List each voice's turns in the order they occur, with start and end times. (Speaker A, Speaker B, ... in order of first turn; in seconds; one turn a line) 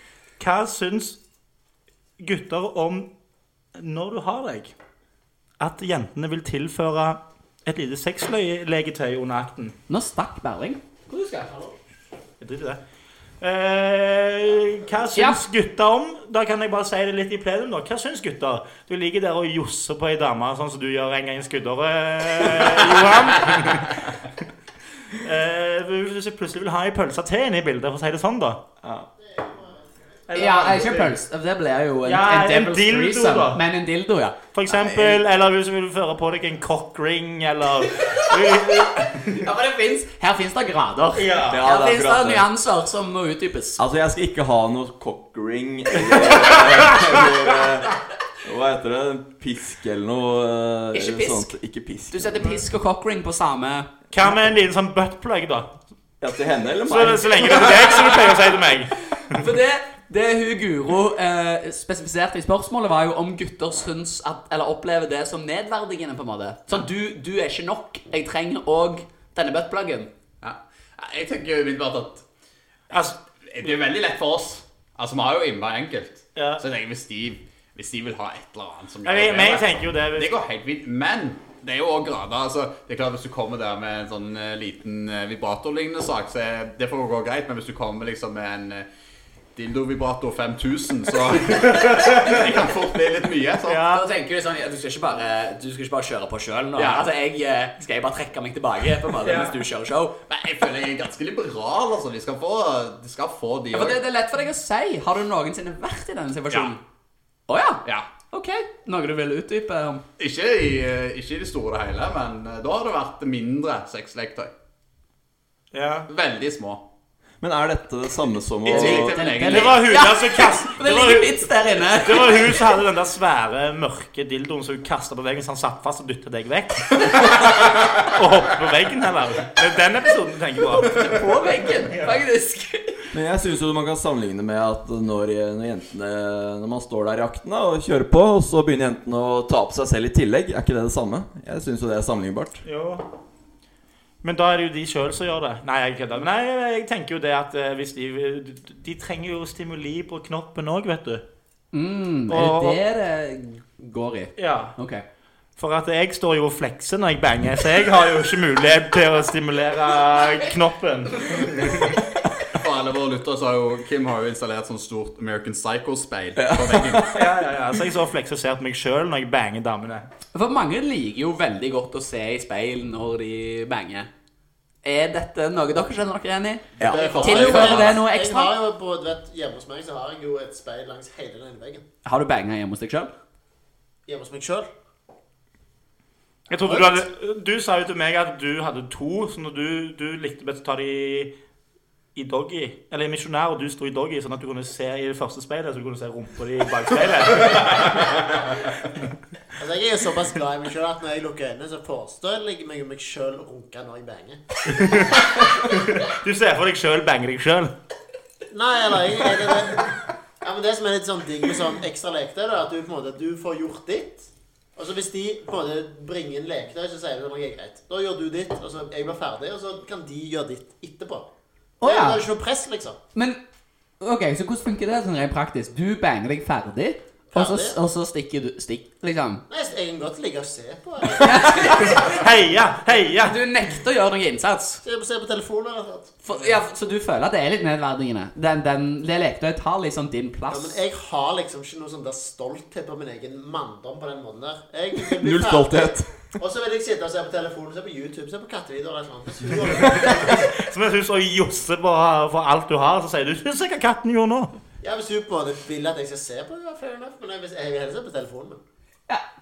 Speaker A: 0.4-1.2
Speaker A: 2.2-3.1
Speaker A: 3.8-4.7
Speaker A: 5.6-9.8
Speaker B: 9.9-11.5
Speaker A: 12.4-12.8
Speaker A: 13.4-24.3
Speaker B: 15.2-15.4
Speaker A: 25.1-28.6
Speaker C: 29.4-29.8
Speaker A: 30.3-31.1
Speaker B: 30.3-35.2
Speaker A: 32.0-33.6
Speaker A: 34.5-39.4
Speaker B: 37.9-43.8
Speaker A: 41.1-41.6
Speaker D: 41.5-42.5
Speaker D: 43.8-47.9
Speaker A: 46.5-47.3
Speaker D: 48.4-52.4
Speaker B: 50.9-51.5
Speaker B: 52.1-53.9
Speaker A: 54.1-55.7
Speaker D: 56.2-57.8
Speaker A: 56.9-59.4
Speaker B: 59.2-70.1
Speaker E: 70.4-72.2
Speaker A: 72.9-73.2
Speaker E: 73.4-88.9
Speaker A: 76.4-76.6
Speaker A: 79.0-80.4
Speaker E: 89.5-93.9
Speaker A: 93.7-94.0
Speaker B: 93.9-100.2
Speaker E: 96.8-97.1
Speaker A: 99.2-99.5
Speaker E: 100.3-104.0
Speaker B: 103.7-106.8
Speaker B: 107.5-110.0
Speaker E: 110.2-114.5
Speaker A: 115.7-116.1
Speaker E: 116.1-116.9
Speaker D: 117.4-119.2
Speaker E: 118.7-119.8
Speaker B: 118.7-122.7
Speaker A: 119.3-131.1
Speaker B: 130.8-133.0
Speaker D: 133.1-142.6
Speaker A: 142.7-143.1
Speaker A: 144.2-151.2
Speaker B: 151.7-155.0
Speaker A: 152.3-152.8
Speaker A: 154.4-154.8
Speaker A: 155.6-162.0
Speaker B: 161.2-161.5
Speaker E: 162.5-167.2
Speaker D: 166.4-167.1
Speaker A: 167.1-170.1
Speaker B: 170.3-174.1
Speaker B: 174.8-178.5
Speaker E: 176.8-178.0
Speaker C: 176.8-181.8
Speaker B: 182.1-183.1
Speaker C: 184.1-184.7
Speaker A: 186.5-191.3
Speaker A: 192.2-199.1
Speaker C: 199.6-205.1
Speaker A: 204.7-207.7
Speaker C: 208.5-221.3
Speaker B: 221.8-222.2
Speaker C: 221.8-223.0
Speaker B: 223.2-223.4
Speaker B: 224.0-229.4
Speaker C: 227.3-227.8
Speaker C: 229.5-232.2
Speaker B: 231.2-232.1
Speaker A: 231.9-233.4
Speaker B: 233.2-234.8
Speaker C: 234.8-236.2
Speaker B: 236.2-240.8
Speaker C: 240.5-250.6
Speaker D: 245.0-246.4
Speaker A: 250.3-254.5
Speaker C: 254.8-258.6